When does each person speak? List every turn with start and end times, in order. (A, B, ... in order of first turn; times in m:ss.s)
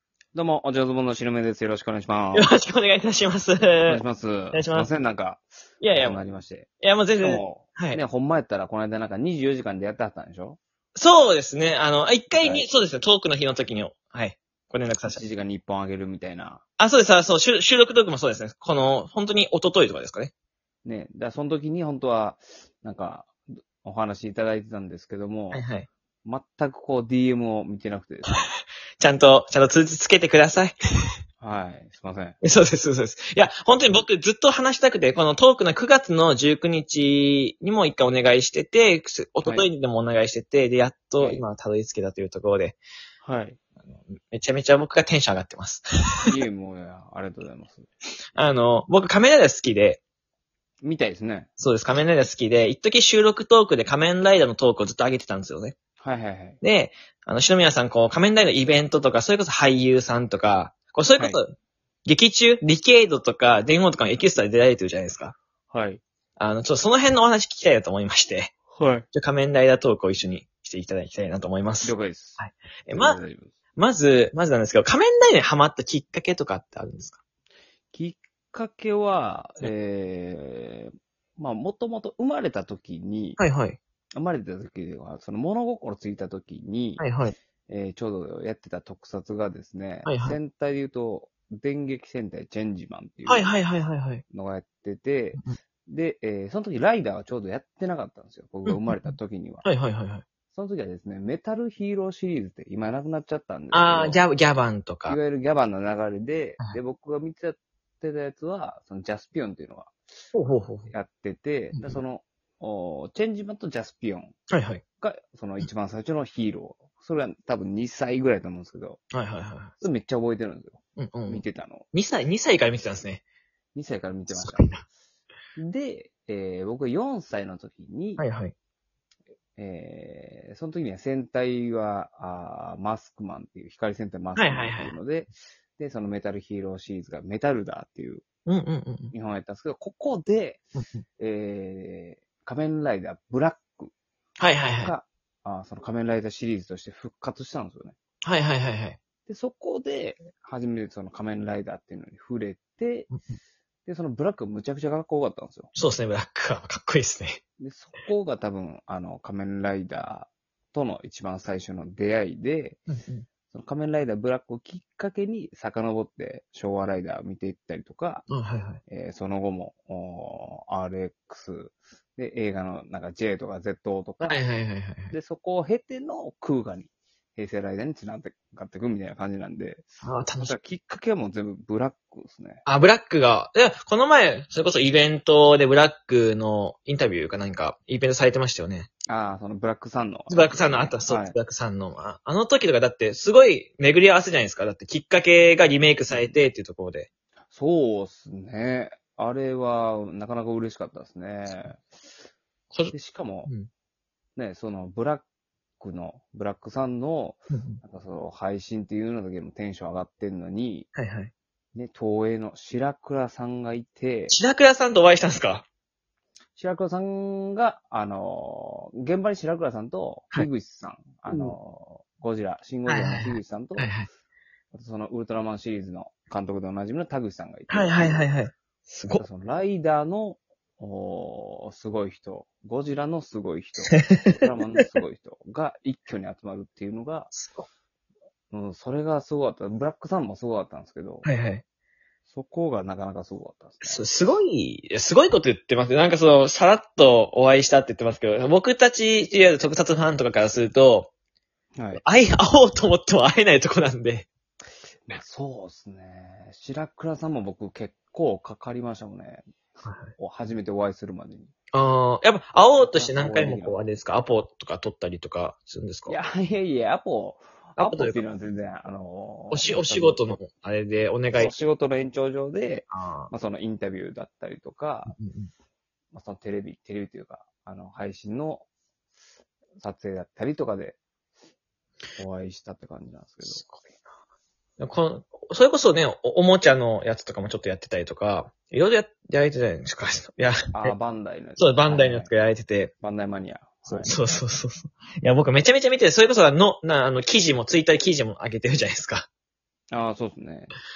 0:00.3-0:02.5 A
0:02.3-0:04.0 B
0:03.9-0:10.6 A
0:04.5-0:04.9 B
0:05.8-0:06.2 B
0:06.8-0:08.0 B
0:11.0-0:15.2 B
0:12.3-0:12.7 A
0:15.0-0:16.6 A
0:16.8-0:20.3 B
0:20.8-0:25.7 A
0:25.5-0:25.9 B
0:26.2-0:28.4 A
0:29.0-0:30.8 B
0:31.4-0:32.4 A
0:32.4-0:42.8 B
0:41.2-0:41.5 A
0:43.2-0:43.6 A
0:44.3-0:46.3 B
0:46.3-0:47.9 A
0:48.4-0:50.0 B
0:50.8-0:51.5 A
0:51.6-0:55.8 B
0:56.0-0:56.6 A
0:56.6-1:01.5 B
1:02.0-1:05.3 B
1:05.7-1:06.0 A
1:06.4-1:08.5 B
1:08.7-1:09.0 A
1:09.1-1:13.2 B
1:11.8-1:13.6 A
1:13.8-1:17.2 B
1:17.9-1:23.4 A
1:23.4-1:23.8 B
1:24.2-1:27.1 A
1:27.0-1:27.3 B
1:27.7-1:33.5 A
1:30.0-1:30.4 B
1:33.2-1:34.2 B
1:34.3-1:39.7 A
1:38.7-1:40.2 B
1:40.5-1:44.2 A
1:43.7-1:45.2 B
1:45.1-1:49.9 A
1:50.3-1:50.9 B
1:50.9-1:54.4 A
1:51.7-1:52.0 B
1:54.5-1:54.8 B
1:55.0-1:59.0 A
1:59.1-1:59.7 B
1:59.8-2:01.9 A
2:01.0-2:03.2 B
2:03.7-2:04.8 A
2:04.3-2:04.8 B
2:05.6-2:08.2 A
2:08.2-2:08.5 B
2:09.6-2:18.2 A
2:14.4-2:15.0 B
2:18.5-2:19.1 B
2:19.1-2:20.6 A
2:21.2-2:23.9 A
2:24.4-2:24.9 B
2:24.8-2:28.0 A
2:28.2-2:29.0 B
2:29.3-2:33.1 A
2:33.1-2:33.4 B
2:33.9-2:35.7 A
2:35.8-2:37.4 B
2:37.6-2:42.8 A
2:42.9-2:43.3 B
2:43.5-2:48.3 A
2:48.3-2:48.8 B
2:48.9-2:54.4 A
2:54.2-2:55.1 B
2:55.1-2:59.9 A
3:00.0-3:00.5 B
3:00.4-3:02.6 A
3:02.6-3:08.9 B
3:09.1-3:11.4 A
3:10.3-3:17.1 B
3:17.5-3:21.8 A
3:22.9-3:23.5 A
3:24.4-3:25.2 A
3:25.8-3:30.9 A
3:27.5-3:27.8 B
3:31.0-3:31.3 B
3:31.8-3:34.4 A
3:34.3-3:35.6 B
3:36.6-3:44.0 A
3:42.9-3:44.1 B
3:44.7-3:48.3 A
3:47.7-3:49.2 B
3:49.1-3:57.3 A
3:53.9-3:54.8 B
3:57.3-3:57.7 B
3:58.5-4:01.3 A
4:01.2-4:01.6 B
4:02.3-4:04.1 A
4:03.8-4:11.1 B
4:11.8-4:12.0 A
4:12.0-4:14.3 B
4:15.1-4:19.4 A
4:19.8-4:20.1 B
4:20.2-4:21.5 A
4:21.7-4:26.2 B
4:22.8-4:23.8 A
4:26.1-4:30.4 A
4:27.8-4:28.2 B
4:29.5-4:31.6 B
4:31.4-4:35.2 A
4:32.9-4:33.3 B
4:35.1-4:35.5 B
4:36.1-4:38.7 A
4:39.8-4:41.0 A
4:42.2-4:43.6 A
4:43.4-4:43.9 B
4:44.8-4:50.9 B
4:50.7-4:52.3 A
4:51.6-4:52.9 B
4:53.0-4:54.2 A
4:53.9-4:59.3 B
4:59.9-5:00.7 A